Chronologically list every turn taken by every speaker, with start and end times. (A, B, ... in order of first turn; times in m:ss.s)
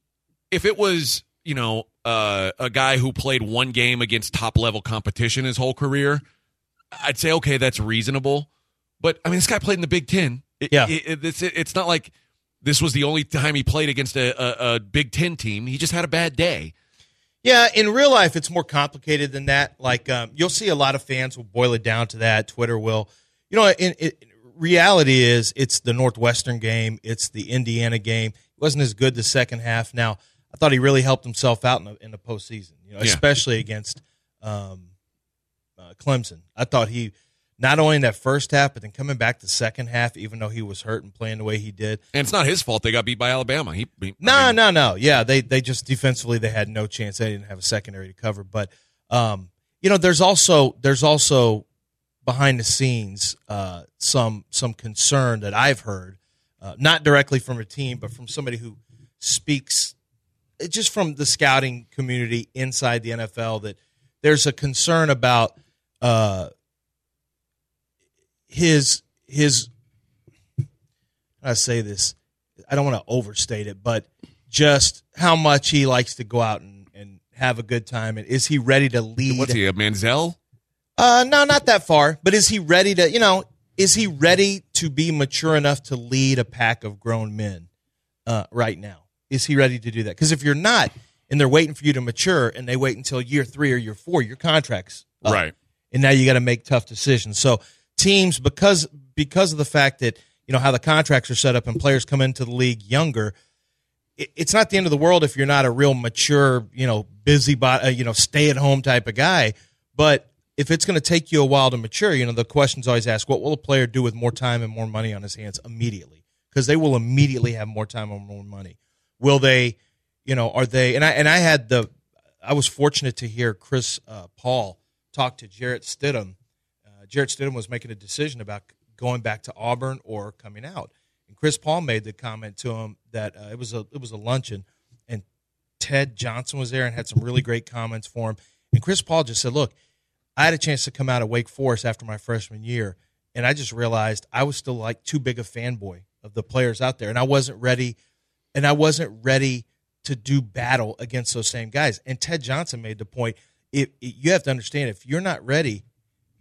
0:00.5-0:06.2 A
0:06.9-0:08.5 A
0:09.0-0:12.1 A
0:12.6-0:16.7 A
0:17.4-0:34.9 B
0:35.8-0:42.0 B
0:42.1-0:44.6 A
0:44.2-0:51.6 B
0:52.2-0:59.9 B
1:00.6-1:06.5 B
1:08.5-1:09.7 B
1:11.4-1:12.2 B
1:12.7-1:19.6 B
1:19.3-1:20.4 A
1:21.0-1:27.7 B
1:28.2-1:35.4 B
1:35.2-1:35.5 A
1:35.9-1:43.3 B
1:44.2-2:01.9 B
2:02.4-2:06.3 B
2:07.1-2:15.2 B
2:15.8-2:19.7 B
2:20.4-2:28.0 B
2:28.5-2:35.8 B